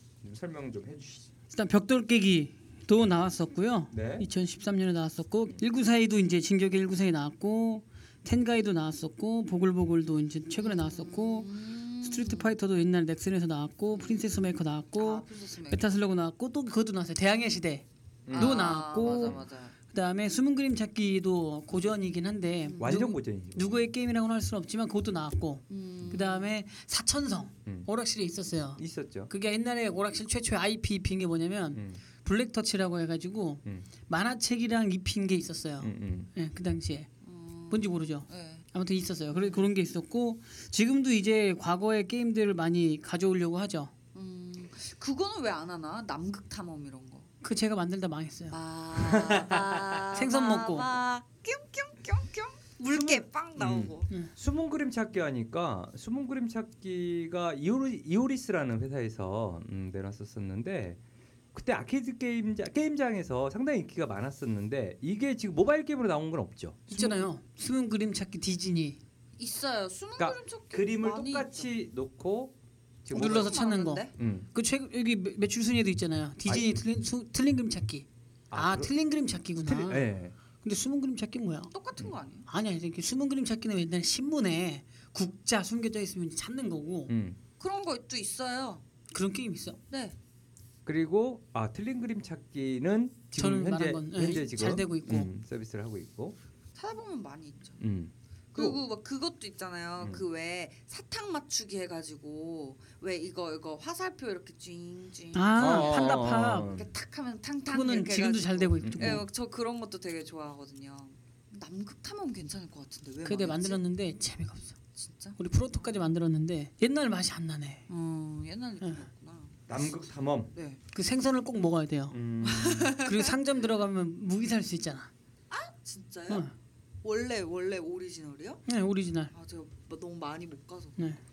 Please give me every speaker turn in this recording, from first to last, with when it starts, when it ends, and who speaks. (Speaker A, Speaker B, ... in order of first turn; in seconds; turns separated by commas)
Speaker A: 0.2-1.3, Speaker B: 1.5-19.4, Speaker A: 3.9-4.3, Speaker C: 10.6-12.5, Speaker C: 13.9-14.4, Speaker C: 15.0-16.0, Speaker A: 18.2-19.4, Speaker C: 18.3-19.7, Speaker B: 19.9-37.1, Speaker C: 22.6-22.9, Speaker A: 22.8-23.9, Speaker C: 25.7-26.5, Speaker A: 28.8-29.3, Speaker A: 31.7-32.0, Speaker A: 35.8-36.3, Speaker C: 37.2-38.6, Speaker B: 37.7-43.9, Speaker C: 39.3-39.7, Speaker C: 44.1-47.3, Speaker B: 47.4-48.6, Speaker C: 48.5-54.1, Speaker A: 48.9-50.1, Speaker B: 50.1-50.9, Speaker A: 52.9-61.0, Speaker A: 61.5-67.2, Speaker B: 66.9-69.0, Speaker C: 69.4-71.7, Speaker A: 70.2-73.6, Speaker C: 73.1-74.1, Speaker B: 73.1-80.0, Speaker A: 74.2-74.5, Speaker A: 78.5-78.9, Speaker A: 79.6-80.3, Speaker B: 80.6-81.7, Speaker C: 81.7-82.5, Speaker B: 82.5-87.1, Speaker A: 87.1-87.4, Speaker C: 87.6-88.8, Speaker B: 89.1-89.8, Speaker C: 89.9-90.2, Speaker A: 90.8-96.4, Speaker B: 93.4-95.3, Speaker C: 96.7-97.8, Speaker A: 97.8-98.8, Speaker C: 98.5-113.8, Speaker B: 105.3-106.7, Speaker A: 105.6-106.9, Speaker B: 107.7-109.2, Speaker A: 108.8-109.2, Speaker B: 113.2-114.8, Speaker C: 115.0-115.4, Speaker B: 115.4-117.8, Speaker C: 117.9-119.6, Speaker A: 119.7-120.5, Speaker C: 120.5-120.8, Speaker B: 120.9-122.2, Speaker A: 122.1-123.0, Speaker C: 122.4-123.3, Speaker B: 123.0-125.1, Speaker C: 125.5-126.5, Speaker C: 127.0-128.6, Speaker B: 128.7-129.3, Speaker C: 129.3-131.0